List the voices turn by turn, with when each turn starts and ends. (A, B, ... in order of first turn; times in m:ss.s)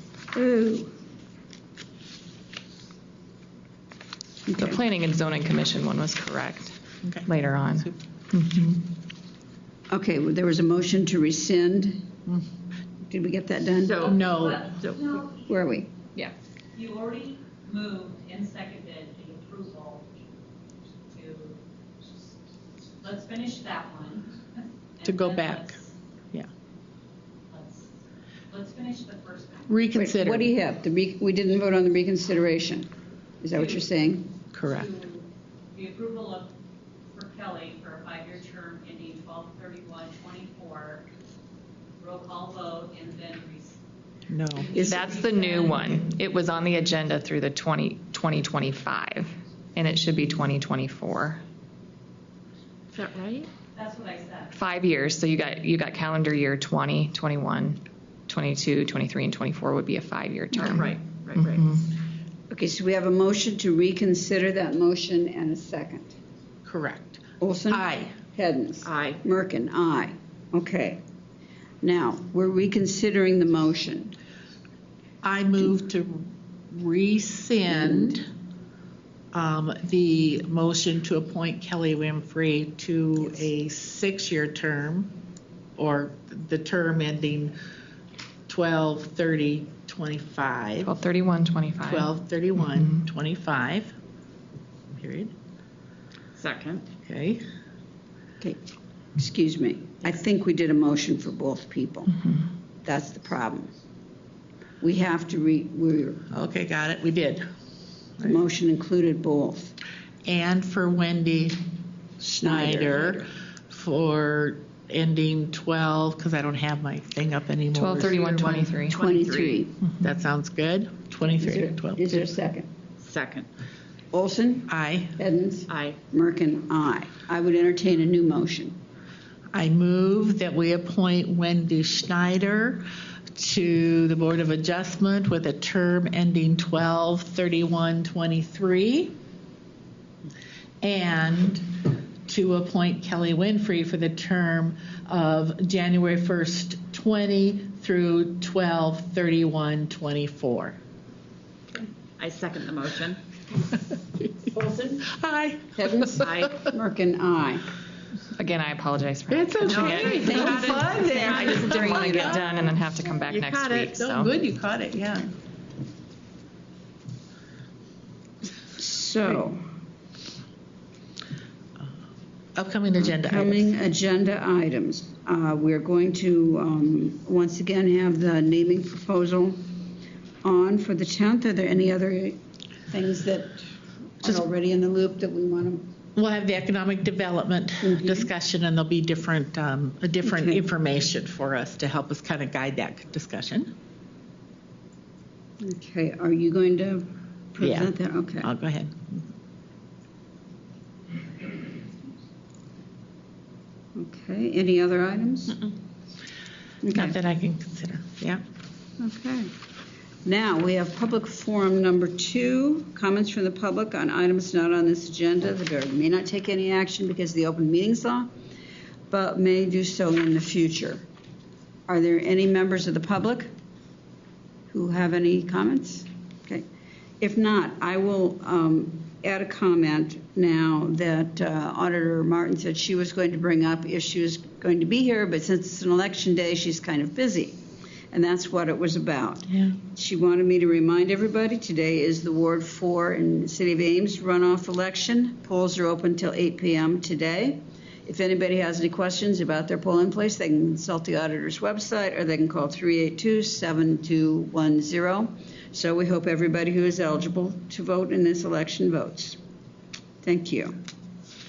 0:00.3-0:00.9 A
0:04.5-0:04.8 A
0:04.6-0:08.8 B
0:09.9-0:12.2 A
0:13.1-0:14.2 A
0:13.8-0:14.2 C
0:14.0-0:15.5 D
0:14.0-0:14.8 E
0:15.4-0:16.0 A
0:16.2-0:20.0 D
0:21.1-0:21.6 D
0:23.0-0:24.4 D
0:25.0-0:25.9 D
0:25.0-0:25.8 E
0:27.5-0:27.9 D
0:28.5-0:29.7 D
0:29.7-0:30.5 E
0:29.9-0:32.9 A
0:33.4-0:34.4 A
0:34.5-0:34.9 E
0:34.7-0:36.5 D
0:37.1-0:41.0 D
0:42.0-0:43.8 D
0:44.3-0:44.8 E
0:44.5-0:46.0 D
0:44.7-0:51.4 B
0:44.8-0:45.1 A
0:52.9-0:53.6 C
0:53.8-0:54.5 D
0:54.5-1:01.0 B
1:00.5-1:01.7 C
1:01.5-1:01.9 B
1:02.5-1:06.2 A
1:06.7-1:08.1 E
1:07.4-1:11.0 A
1:08.8-1:09.2 C
1:11.8-1:14.2 A
1:15.2-1:18.3 E
1:17.8-1:18.1 A
1:19.3-1:25.2 E
1:25.8-1:27.6 E
1:28.5-1:30.9 E
1:30.8-1:32.1 B
1:31.8-1:34.0 E
1:35.0-1:35.3 E
1:36.4-1:36.8 C
1:37.0-1:37.4 E
1:39.2-1:42.3 A
1:42.8-1:43.7 A
1:44.8-1:46.2 A
1:46.3-1:47.4 E
1:48.2-1:49.8 A
1:50.2-1:51.6 E
1:52.2-1:58.8 E
1:52.3-1:53.3 A
1:57.7-1:59.4 B
1:58.9-1:59.8 A
1:58.9-1:59.4 C
2:00.0-2:02.2 E
2:01.3-2:02.7 A
2:03.0-2:03.5 C
2:04.1-2:08.8 A
2:04.7-2:05.2 E
2:05.7-2:06.0 C
2:09.5-2:19.2 E
2:20.8-2:30.8 E
2:32.2-2:33.2 C
2:34.5-2:35.0 C
2:35.0-2:36.4 E
2:35.8-2:37.7 A
2:36.2-2:36.6 C
2:38.4-2:44.3 B
2:39.3-2:42.4 E
2:39.7-2:42.5 C
2:39.9-2:42.5 A
2:43.3-2:43.9 C
2:43.4-2:45.3 E
2:48.7-2:49.6 A
2:52.6-2:53.7 E
2:53.0-2:59.7 A
3:00.4-3:03.6 A
3:04.2-3:05.9 A
3:06.2-3:13.7 E
3:07.8-3:08.3 A
3:10.3-3:10.6 A
3:15.6-3:18.5 A
3:17.6-3:19.3 E
3:24.0-3:25.7 A
3:26.8-3:27.2 A
3:26.9-3:28.4 E
3:29.0-3:29.5 A
3:30.2-3:38.3 A
3:39.1-3:41.0 A
3:41.9-3:43.5 A
3:44.7-3:46.6 A
3:47.2-3:57.6 A
3:58.1-4:19.4 A
4:20.2-4:20.8 A